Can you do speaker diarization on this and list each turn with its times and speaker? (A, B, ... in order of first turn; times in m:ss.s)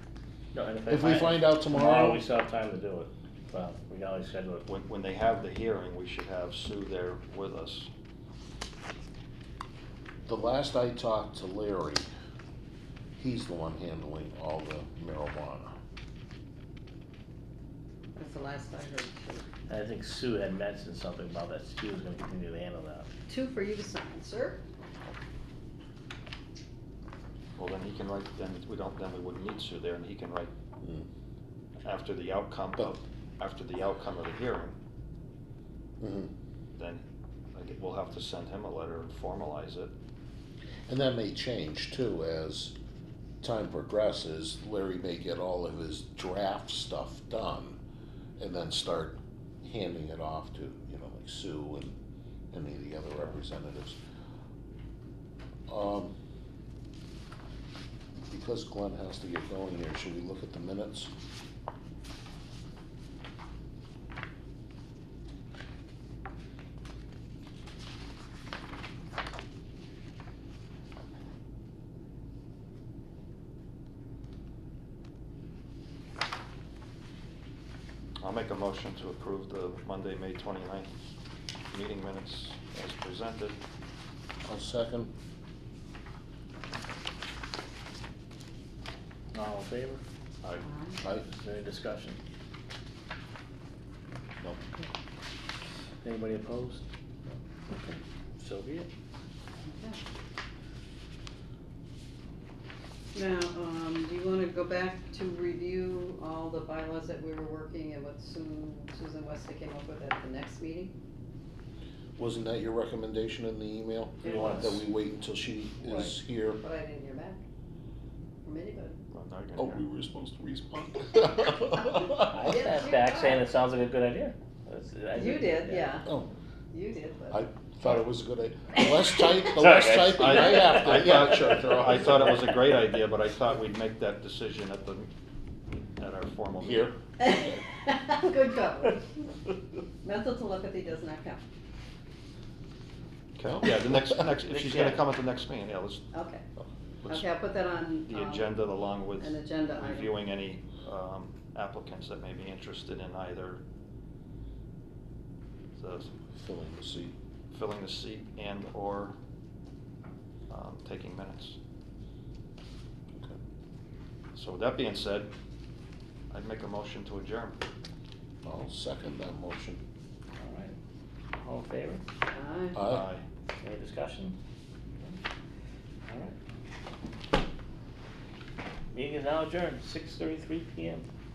0:00.5-0:04.7 A
0:00.9-0:02.2 B
0:04.7-0:07.9 C
0:10.2-0:12.1 B
0:13.2-0:15.7 B
0:18.2-0:19.4 D
0:19.7-0:23.1 A
0:23.3-0:24.6 D
0:27.6-0:30.5 C
0:30.8-0:31.1 B
0:31.8-0:34.8 C
0:36.0-0:36.3 B
0:36.7-0:39.9 C
0:40.9-0:42.7 B
0:43.4-0:47.8 B
0:48.4-0:52.0 B
0:52.5-0:54.0 B
0:55.7-0:56.1 B
0:58.3-1:01.1 B
1:18.2-1:20.9 C
1:21.7-1:23.6 C
1:24.4-1:25.1 B
1:29.3-1:30.0 A
1:30.6-1:31.0 D
1:31.2-1:32.2 A
1:36.0-1:36.8 A
1:37.7-1:38.9 A
1:39.6-1:40.0 D
1:43.1-1:50.9 D
1:52.2-1:56.6 B
1:54.2-1:54.8 D
1:54.2-1:54.8 A
1:55.8-1:57.4 D
1:58.4-1:59.0 D
1:59.1-1:59.8 C
1:59.6-2:02.6 B
2:01.8-2:03.4 D
2:02.2-2:05.9 A
2:05.1-2:06.1 D
2:06.7-2:07.4 D
2:07.3-2:12.3 B
2:09.6-2:10.8 A
2:10.2-2:15.1 C
2:15.8-2:16.9 C
2:16.6-2:17.5 B
2:17.2-2:19.2 D
2:20.0-2:21.4 D
2:23.4-2:26.0 C
2:24.5-2:25.0 A
2:26.1-2:26.4 D
2:26.6-2:27.2 B
2:27.0-2:28.6 D
2:28.1-2:33.6 C
2:29.2-2:30.1 D
2:35.8-2:36.1 C
2:36.3-2:37.1 B
2:37.5-2:39.2 C
2:40.5-2:41.6 C
2:44.3-2:45.3 C
2:46.3-2:47.6 C
2:48.4-2:49.8 B
2:50.4-2:50.8 A
2:51.4-2:52.0 A
2:52.3-2:52.8 D
2:52.7-2:53.1 B
2:52.8-2:53.2 C
2:53.6-2:54.4 A
2:56.0-2:56.4 A
2:58.9-3:01.1 A